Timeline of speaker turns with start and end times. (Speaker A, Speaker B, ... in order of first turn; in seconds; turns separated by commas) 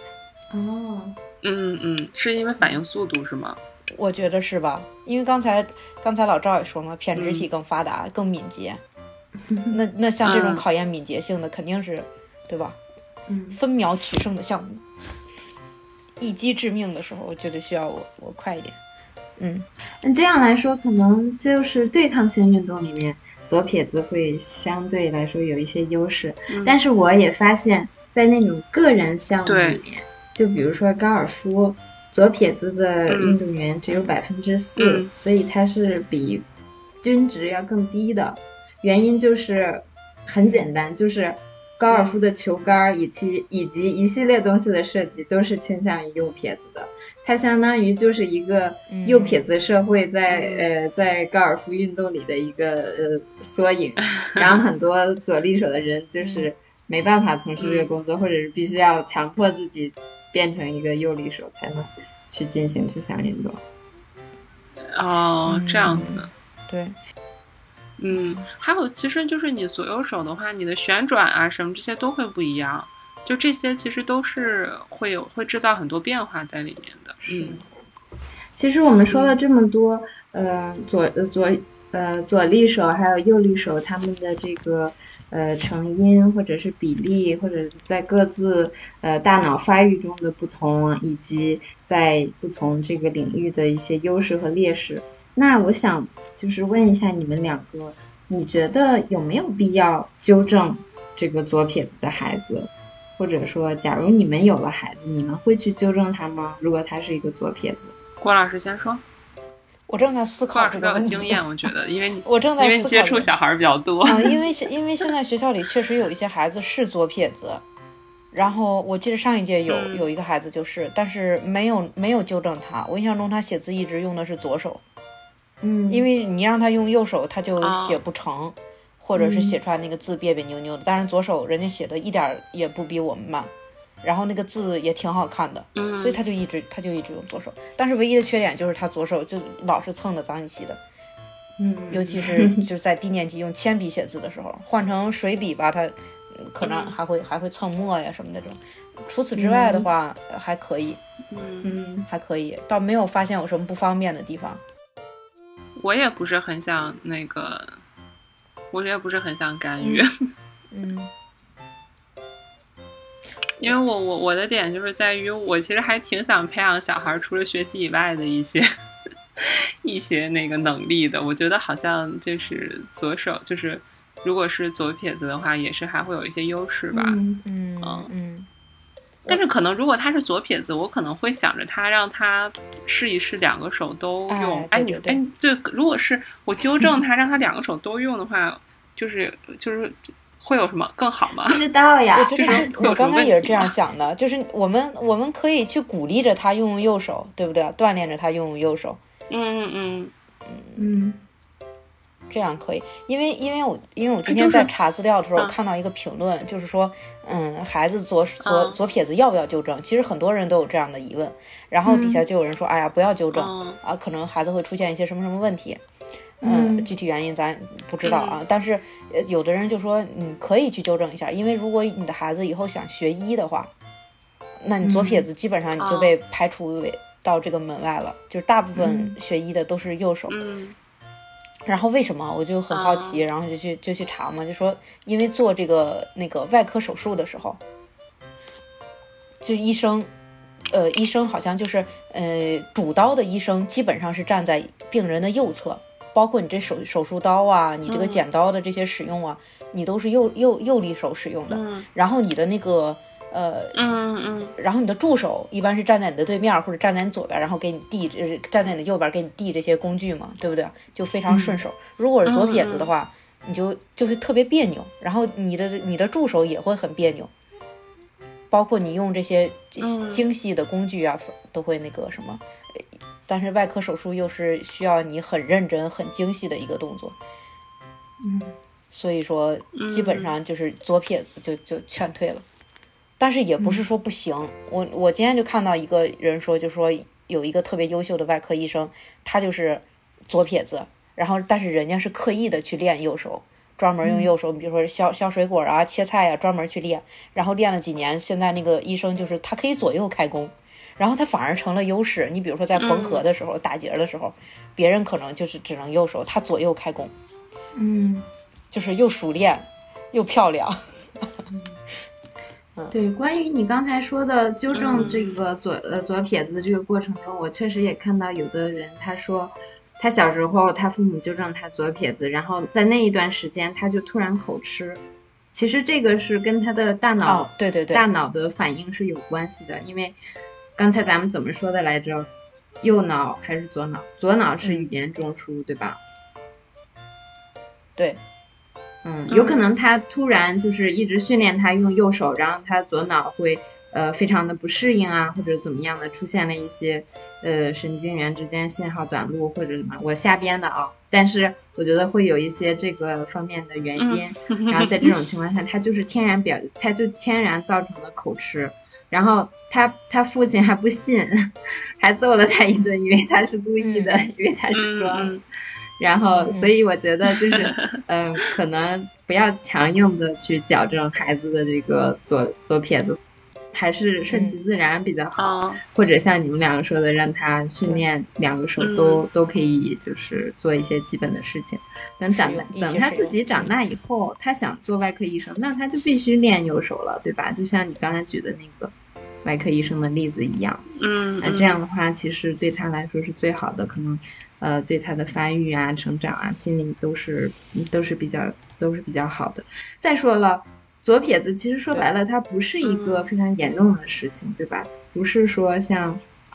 Speaker A: 0.5-1.2, Speaker B: 1.4-3.6, Speaker C: 3.9-8.8, Speaker B: 7.2-7.5, Speaker A: 9.4-9.8, Speaker C: 9.7-12.8, Speaker B: 10.2-10.6, Speaker A: 13.3-13.6, Speaker C: 13.5-14.8, Speaker C: 16.2-18.8, Speaker C: 19.4-19.7, Speaker A: 20.0-36.4, Speaker B: 26.5-26.8, Speaker B: 29.4-29.8, Speaker B: 33.1-34.1, Speaker B: 34.8-35.1, Speaker A: 37.0-63.6, Speaker B: 41.9-42.2, Speaker C: 48.9-49.4, Speaker B: 50.3-50.7, Speaker C: 56.2-56.5, Speaker B: 57.6-57.9, Speaker B: 64.9-66.3, Speaker C: 65.5-67.0, Speaker B: 68.0-77.6, Speaker A: 68.1-68.4, Speaker A: 77.2-77.6, Speaker A: 78.6-107.9, Speaker B: 79.1-79.4, Speaker B: 108.2-109.0, Speaker C: 109.9-111.7, Speaker B: 110.5-114.4, Speaker C: 112.2-113.3, Speaker C: 114.0-117.6, Speaker C: 118.3-124.8, Speaker B: 119.7-120.1, Speaker A: 125.6-126.1, Speaker C: 125.9-140.8, Speaker B: 127.6-128.0, Speaker A: 129.1-129.6, Speaker B: 135.7-136.2, Speaker A: 141.6-142.6, Speaker C: 141.9-151.0, Speaker B: 146.6-147.0, Speaker A: 149.3-149.9, Speaker B: 151.3-151.7, Speaker A: 151.6-152.1, Speaker C: 152.1-154.6, Speaker B: 155.8-157.8, Speaker B: 158.7-160.1, Speaker C: 160.7-161.1, Speaker B: 163.6-168.7, Speaker B: 169.4-177.2, Speaker A: 176.9-177.4, Speaker C: 177.4-178.5, Speaker B: 177.8-178.1, Speaker B: 179.3-191.6, Speaker C: 184.3-185.2, Speaker A: 191.4-192.9, Speaker C: 192.1-199.0, Speaker B: 192.4-193.7, Speaker B: 199.3-200.1, Speaker C: 200.4-200.8, Speaker A: 200.8-201.2, Speaker C: 202.3-215.8, Speaker B: 204.3-204.7, Speaker B: 208.4-208.8, Speaker A: 211.9-212.2, Speaker B: 213.3-213.8, Speaker A: 216.4-216.9, Speaker C: 216.4-223.7, Speaker B: 218.0-218.4, Speaker C: 224.6-230.4, Speaker A: 224.8-225.2, Speaker B: 225.8-226.1, Speaker A: 228.8-229.2, Speaker B: 230.3-230.8, Speaker C: 231.7-237.6, Speaker B: 232.7-233.2, Speaker C: 239.4-240.1, Speaker C: 240.7-253.8, Speaker B: 247.9-248.2, Speaker B: 251.5-251.9, Speaker B: 253.7-254.5, Speaker C: 254.6-267.3, Speaker A: 261.3-261.6, Speaker B: 262.2-262.9, Speaker C: 268.5-272.4, Speaker B: 269.8-270.2, Speaker C: 273.3-277.1, Speaker A: 278.2-278.6, Speaker C: 278.9-282.4, Speaker B: 279.7-280.4, Speaker C: 283.2-307.1, Speaker A: 294.0-294.3, Speaker B: 302.8-303.2, Speaker A: 307.8-308.3, Speaker C: 308.7-311.3, Speaker A: 311.5-311.8, Speaker A: 312.9-330.2, Speaker B: 314.7-315.4, Speaker C: 327.2-328.1, Speaker A: 330.8-332.3, Speaker A: 332.8-336.0, Speaker C: 334.6-334.9, Speaker A: 339.0-365.3, Speaker B: 339.3-339.6, Speaker B: 354.0-355.1, Speaker C: 363.8-364.2, Speaker B: 364.7-365.4, Speaker A: 366.0-373.2, Speaker C: 366.4-366.7, Speaker A: 373.7-388.9, Speaker C: 374.3-374.6, Speaker B: 375.4-375.8, Speaker B: 378.8-379.2, Speaker C: 382.3-383.7, Speaker A: 389.4-390.9, Speaker B: 391.0-391.8, Speaker A: 391.4-406.2, Speaker B: 402.8-403.3